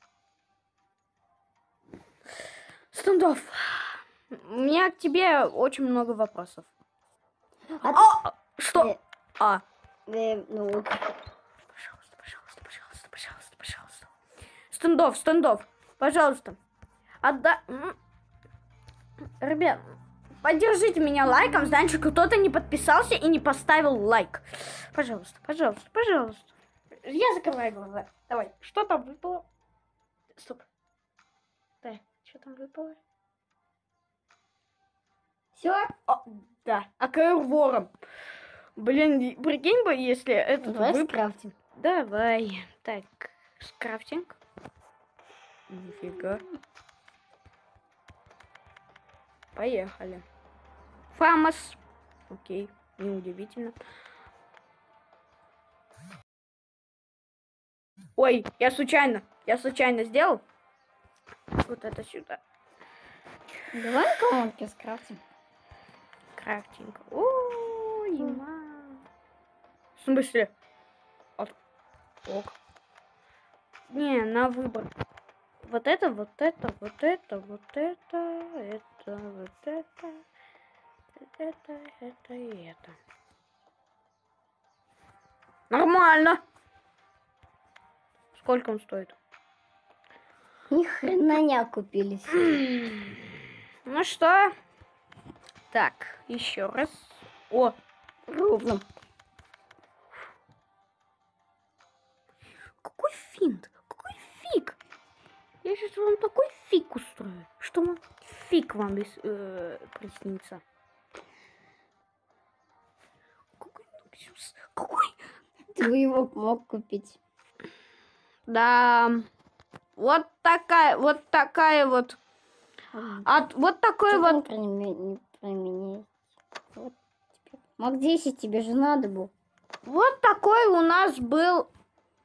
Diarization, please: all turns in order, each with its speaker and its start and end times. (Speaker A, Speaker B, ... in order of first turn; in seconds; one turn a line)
Speaker A: 2.9-6.7
Speaker B: 7.8-8.1
Speaker A: 7.9-9.6
Speaker B: 10.1-11.0
Speaker A: 11.7-14.1
Speaker A: 14.7-16.6
Speaker A: 17.2-17.9
Speaker A: 19.4-29.4
Speaker A: 30.4-30.6
Speaker A: 31.8-33.0
Speaker B: 35.5-35.9
Speaker A: 36.1-37.9
Speaker A: 38.8-41.2
Speaker B: 40.6-41.5
Speaker A: 41.7-44.4
Speaker A: 45.7-46.4
Speaker A: 49.5-50.2
Speaker A: 51.1-53.8
Speaker A: 58.2-60.4
Speaker A: 61.6-62.4
Speaker B: 63.7-65.2
Speaker A: 66.3-69.0
Speaker A: 70.0-70.5
Speaker A: 72.2-72.5
Speaker A: 73.9-74.9
Speaker A: 75.6-80.2
Speaker A: 81.2-83.0
Speaker A: 85.7-86.4
Speaker A: 88.3-89.2
Speaker B: 90.7-92.6
Speaker A: 92.4-93.2
Speaker A: 93.8-94.5
Speaker A: 95.7-97.8
Speaker B: 98.3-98.8
Speaker A: 102.8-104.8
Speaker A: 105.6-110.6
Speaker A: 113.6-115.2
Speaker B: 115.7-117.2
Speaker A: 118.5-119.3
Speaker A: 120.0-122.2
Speaker B: 122.9-123.3
Speaker A: 123.2-124.4
Speaker B: 124.1-126.1
Speaker B: 126.7-129.3
Speaker A: 129.8-131.7